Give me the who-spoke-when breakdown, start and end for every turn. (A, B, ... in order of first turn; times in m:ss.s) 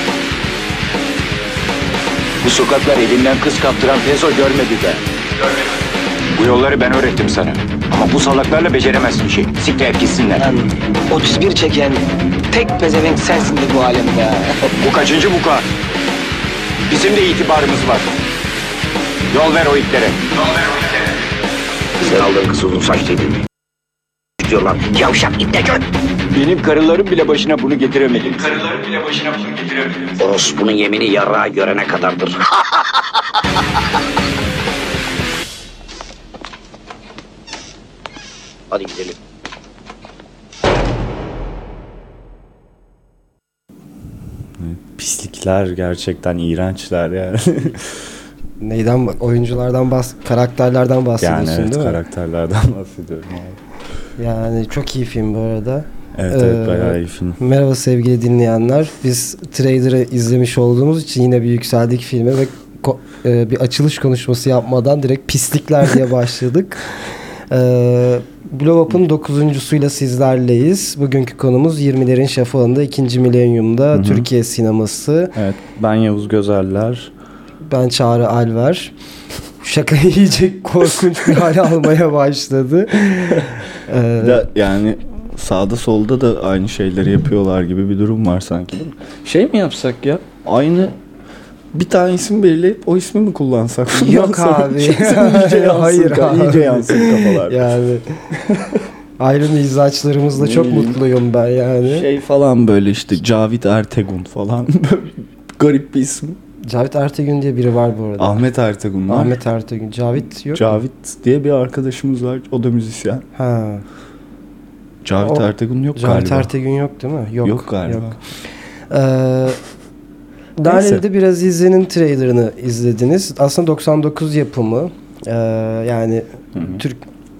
0:02.4-0:05.0 A
0:06.4-0:10.4 A
0:10.4-0:14.5 B
0:14.8-0:15.6 A
0:16.9-0:18.1 A
0:19.3-0:20.8 A
0:22.0-0:23.4 C
0:24.4-0:25.8 C
0:26.3-0:30.1 A
0:30.2-0:32.8 C
0:38.7-0:39.2 C
0:44.6-0:48.0 D
0:48.6-0:52.0 E
0:51.2-0:53.6 D
0:54.2-1:15.3 E
0:56.2-0:57.4 D
1:13.9-1:14.3 D
1:15.3-1:17.1 D
1:17.6-1:18.9 E
1:19.6-1:24.4 E
1:24.2-1:30.9 D
1:31.7-1:37.7 D
1:33.9-1:38.2 E
1:38.4-1:38.8 D
1:39.2-1:42.0 E
1:40.3-1:41.0 D
1:41.8-1:46.4 D
1:46.7-1:48.4 E
1:48.2-1:49.4 D
1:49.1-1:50.8 E
1:50.5-1:53.2 D
1:53.3-1:53.8 E
1:55.0-1:56.5 D
1:55.2-1:55.4 E
1:55.9-1:58.2 E
1:57.4-1:58.2 D
1:58.9-1:59.6 E
2:00.6-2:07.0 E
2:00.6-2:01.0 D
2:06.6-2:06.8 D